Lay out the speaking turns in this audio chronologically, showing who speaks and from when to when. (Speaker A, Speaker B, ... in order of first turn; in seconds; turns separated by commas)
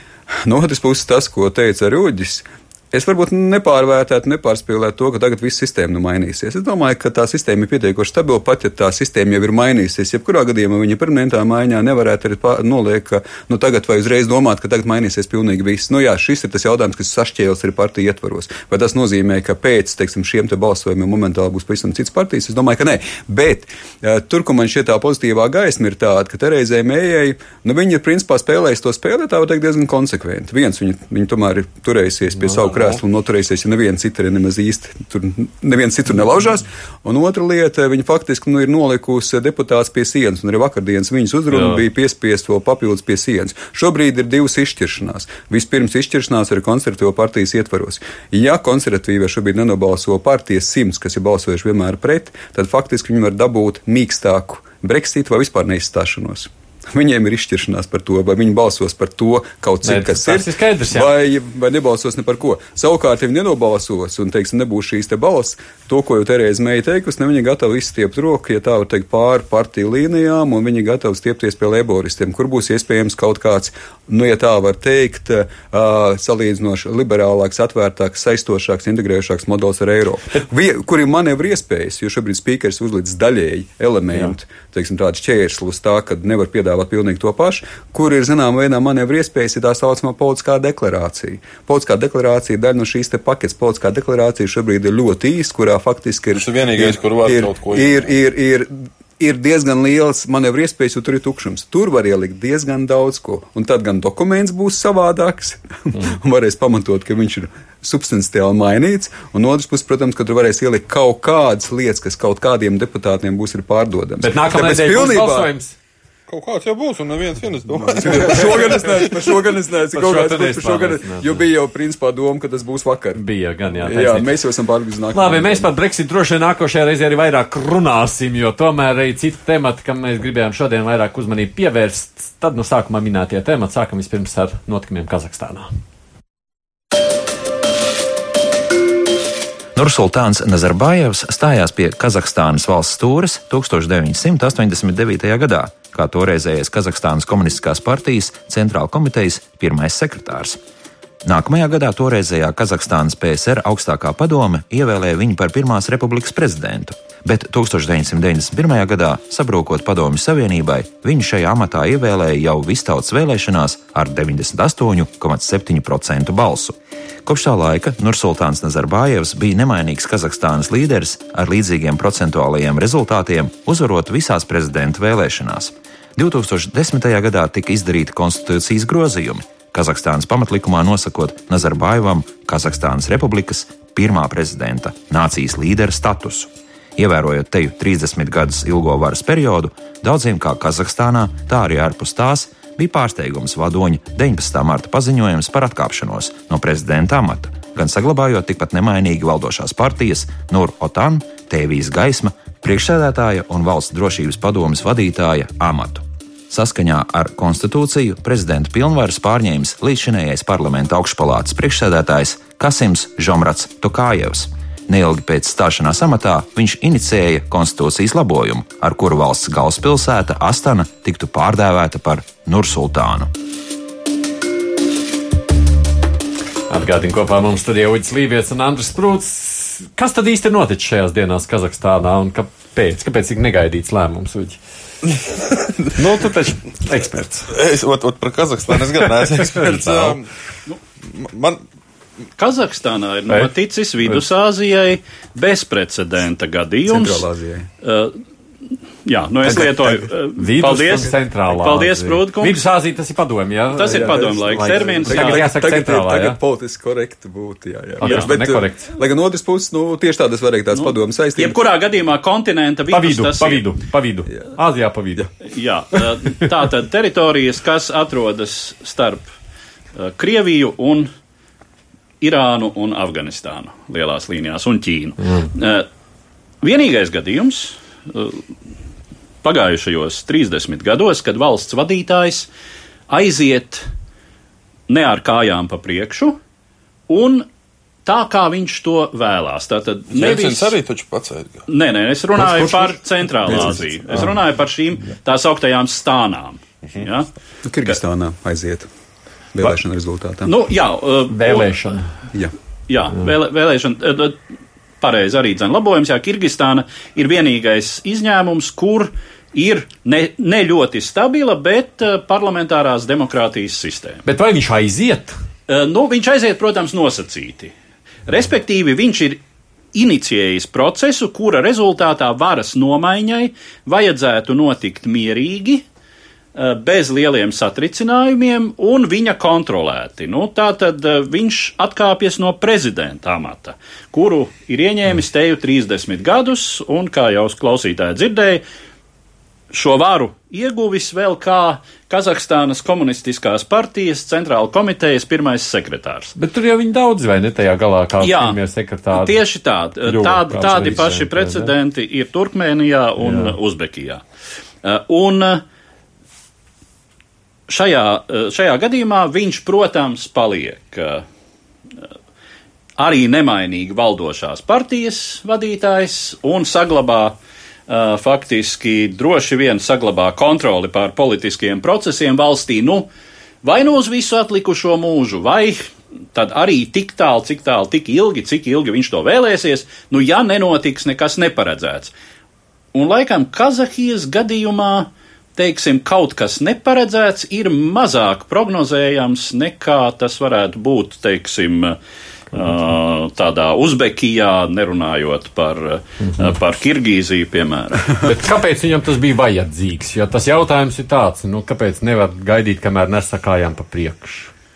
Speaker A: 0.3-115.5, Speaker B: 32.4-32.8, Speaker B: 41.5-41.8, Speaker B: 59.8-61.1, Speaker C: 96.4-98.1, Speaker B: 114.2-115.8, Speaker C: 116.3-119.0, Speaker A: 117.9-123.2, Speaker B: 119.9-121.4, Speaker B: 123.2-124.3, Speaker A: 123.8-125.7, Speaker B: 125.1-135.7, Speaker D: 139.8-150.6, Speaker D: 151.2-223.3, Speaker B: 226.7-234.6, Speaker C: 235.2-236.0, Speaker B: 236.0-237.5, Speaker C: 237.5-240.3, Speaker B: 239.6-240.1, Speaker C: 241.1-241.6, Speaker E: 242.4-247.3, Speaker A: 246.9-247.7, Speaker E: 247.8-248.2, Speaker E: 249.1-252.7, Speaker B: 249.4-256.4, Speaker E: 253.7-255.4, Speaker A: 253.9-261.6, Speaker E: 258.0-258.3, Speaker B: 258.0-258.9, Speaker E: 260.7-263.7, Speaker B: 262.9-265.3, Speaker E: 265.4-269.3, Speaker E: 269.9-271.1, Speaker E: 272.2-275.9, Speaker E: 276.6-278.4, Speaker E: 279.4-282.5, Speaker E: 283.1-283.9, Speaker E: 284.9-286.4, Speaker E: 287.1-287.5, Speaker E: 288.1-290.8, Speaker C: 290.1-291.6, Speaker E: 291.7-297.3, Speaker A: 297.6-298.9, Speaker A: 299.6-300.5, Speaker E: 300.5-301.7, Speaker B: 301.3-302.1, Speaker E: 302.9-304.4, Speaker E: 305.0-314.2, Speaker B: 314.3-315.4, Speaker E: 315.7-317.7, Speaker E: 318.3-319.4, Speaker E: 319.9-325.9, Speaker E: 326.6-338.6, Speaker E: 339.7-346.4, Speaker B: 346.4-349.4, Speaker E: 348.2-348.6, Speaker E: 349.1-354.2, Speaker B: 350.1-351.7, Speaker B: 353.2-353.6, Speaker E: 354.8-355.6, Speaker E: 357.7-361.2, Speaker E: 363.0-367.4, Speaker E: 367.9-373.1, Speaker E: 373.6-375.8, Speaker E: 376.3-382.1, Speaker E: 382.9-392.0, Speaker E: 392.5-398.2, Speaker B: 396.2-396.6, Speaker B: 398.2-404.5